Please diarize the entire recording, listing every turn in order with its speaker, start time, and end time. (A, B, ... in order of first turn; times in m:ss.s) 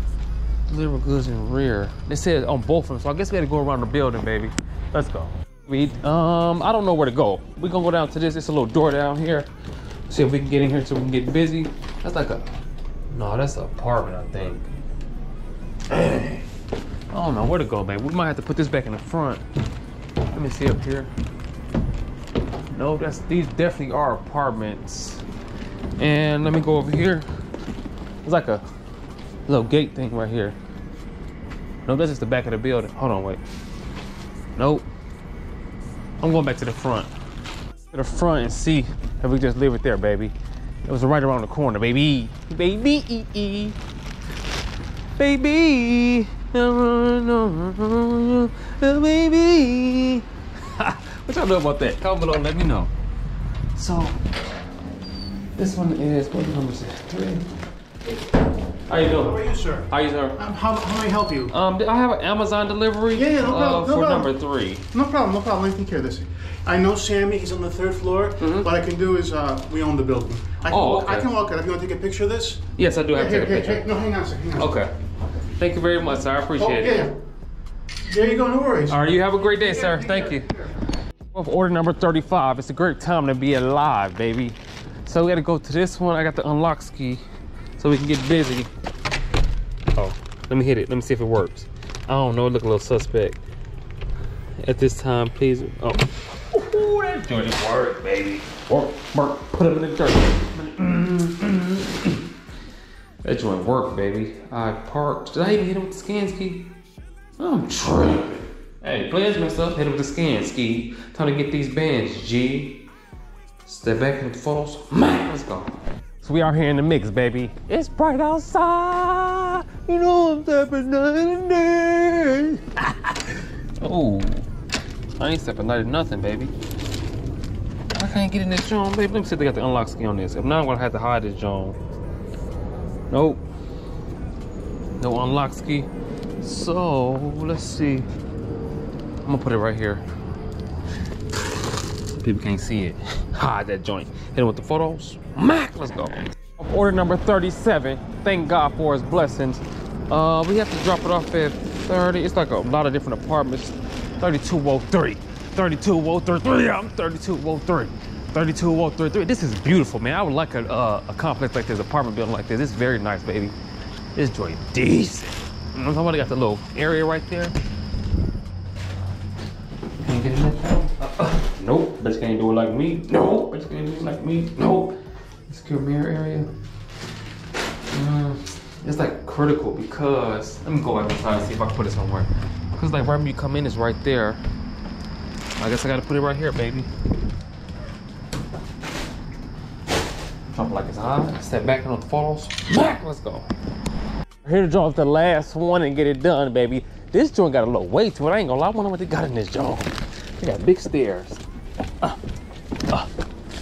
0:00.7-0:09.5 A
0:10.1-0:12.5 A
0:13.1-0:14.7 A
0:15.9-0:16.5 A
0:17.1-0:19.4 A
0:20.3-0:21.1 A
0:22.7-0:25.2 A
0:26.0-0:27.3 A
0:28.2-0:28.6 A
0:29.5-0:30.6 A
0:31.9-0:33.4 A
0:34.6-0:34.9 A
0:36.2-0:37.1 A
0:37.9-0:40.4 A
0:40.9-0:43.8 A
0:45.2-0:52.9 A
0:53.7-0:54.2 A
0:55.6-0:57.5 A
0:58.9-1:00.4 A
0:59.4-0:59.8 B
1:00.4-1:01.5 B
1:01.4-1:04.9 A
1:03.1-1:04.3 B
1:04.9-1:12.6 B
1:08.4-1:08.7 A
1:10.7-1:11.3 A
1:12.8-1:13.9 A
1:13.1-1:14.7 B
1:14.5-1:14.9 A
1:15.5-1:17.1 A
1:16.7-1:17.1 B
1:18.0-1:19.0 B
1:18.8-1:20.7 A
1:19.6-1:20.5 B
1:21.3-1:27.2 A
1:27.8-1:28.7 A
1:29.9-1:33.4 A
1:34.6-1:42.2 A
1:43.2-1:46.7 A
1:47.4-1:52.9 A
1:53.6-2:04.5 A
2:05.2-2:06.5 A
2:07.9-2:11.8 A
2:13.1-2:13.4 A
2:15.0-2:18.1 A
2:19.2-2:20.0 A
2:22.1-2:43.6 A
2:44.1-2:47.6 A
2:50.0-2:55.0 A
2:55.5-2:56.5 A
2:57.9-3:04.4 A
3:05.6-3:06.9 A
3:10.5-3:13.5 A
3:14.4-3:21.4 A